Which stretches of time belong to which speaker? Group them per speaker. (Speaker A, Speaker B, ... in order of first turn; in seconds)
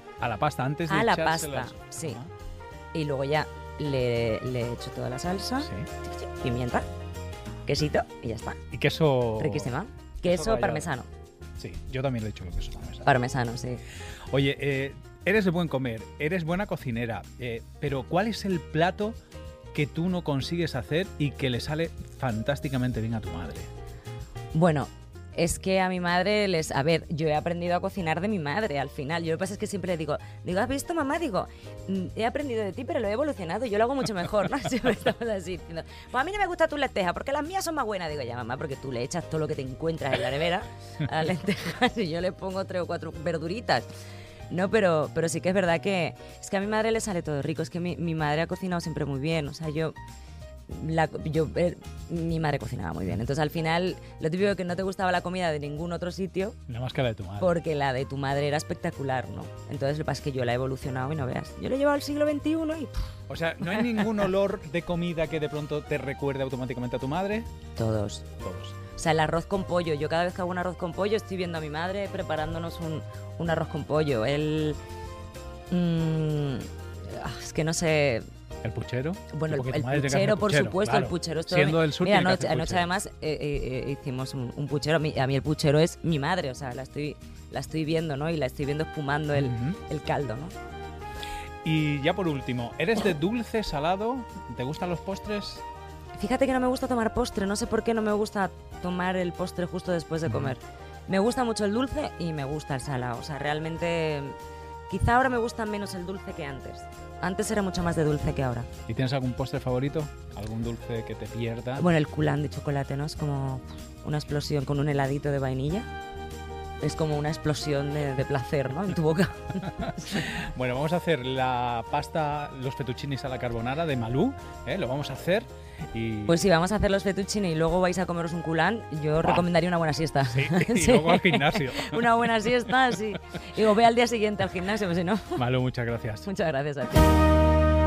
Speaker A: 0.2-2.3, 5.6-5.9, 8.7-10.9, 11.6-13.1, 14.3-19.2, 19.7-23.7, 56.7-57.5, 63.3-67.5, 68.4-68.8, 78.6-82.9, 89.4-89.8, 91.6-95.6, 108.9-111.9, 119.8-126.5, 130.3-132.8, 135.4-136.3
Speaker B: 0.9-2.2, 2.9-6.9, 7.7-8.6, 9.4-11.1, 13.0-13.8, 24.5-43.9, 44.5-50.0, 50.7-56.6, 57.4-62.9, 67.8-68.3, 68.9-74.8, 75.7-78.2, 79.3-90.5, 96.2-104.3, 104.9-108.7, 111.8-115.9, 116.8-120.2, 126.3-135.4, 136.2-137.3